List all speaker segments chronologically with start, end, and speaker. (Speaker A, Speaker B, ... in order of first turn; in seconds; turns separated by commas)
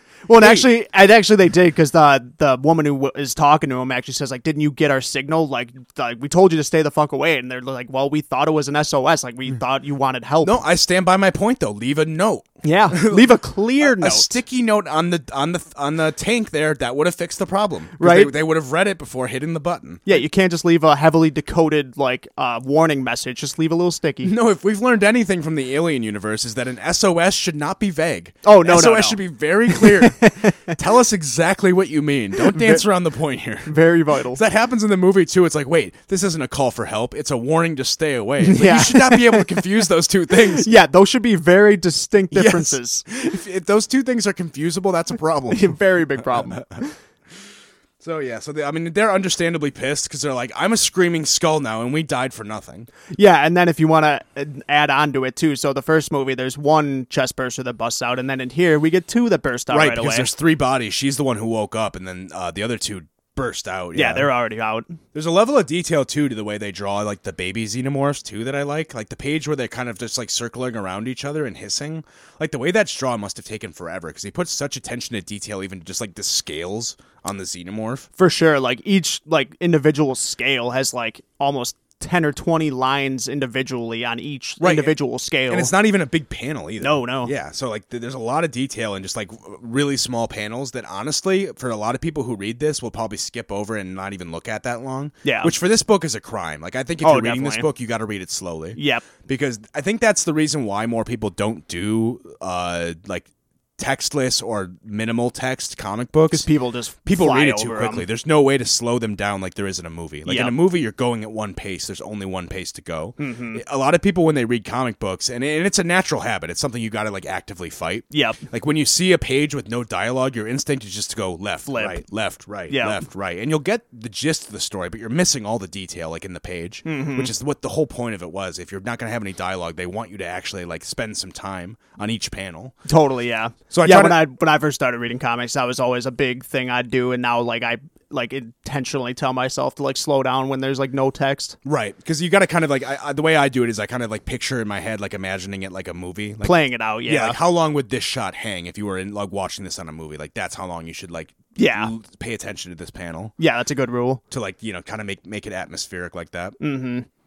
Speaker A: 0.3-10.6, Speaker B: 0.4-0.7, Speaker B: 10.4-20.2, Speaker A: 12.6-14.3, Speaker A: 18.0-18.3, Speaker A: 20.1-24.3, Speaker B: 24.2-33.8, Speaker A: 28.4-30.8, Speaker A: 32.4-32.8, Speaker A: 33.6-34.4, Speaker B: 34.3-40.7, Speaker A: 38.4-39.7, Speaker A: 40.5-43.1, Speaker B: 42.3-46.8, Speaker A: 45.5-46.9, Speaker B: 48.0-52.9, Speaker A: 53.1-60.3, Speaker B: 59.7-64.3, Speaker A: 63.9-65.0, Speaker B: 65.1-78.1, Speaker A: 78.2-85.7, Speaker B: 84.6-84.9, Speaker B: 85.5-103.2, Speaker A: 86.8-87.3, Speaker A: 95.2-95.5, Speaker A: 97.0-97.7, Speaker A: 98.8-99.1, Speaker B: 103.8-106.5, Speaker A: 106.3-108.0, Speaker B: 107.0-132.8, Speaker A: 110.2-110.5, Speaker A: 113.2-113.6, Speaker A: 118.1-118.4, Speaker A: 121.7-122.0, Speaker A: 122.7-123.0, Speaker A: 126.8-127.3, Speaker A: 132.9-141.6, Speaker B: 133.7-134.2, Speaker B: 141.6-153.3, Speaker A: 146.4-147.4, Speaker A: 151.6-151.9, Speaker A: 153.4-154.2, Speaker B: 154.3-156.6, Speaker A: 156.6-157.1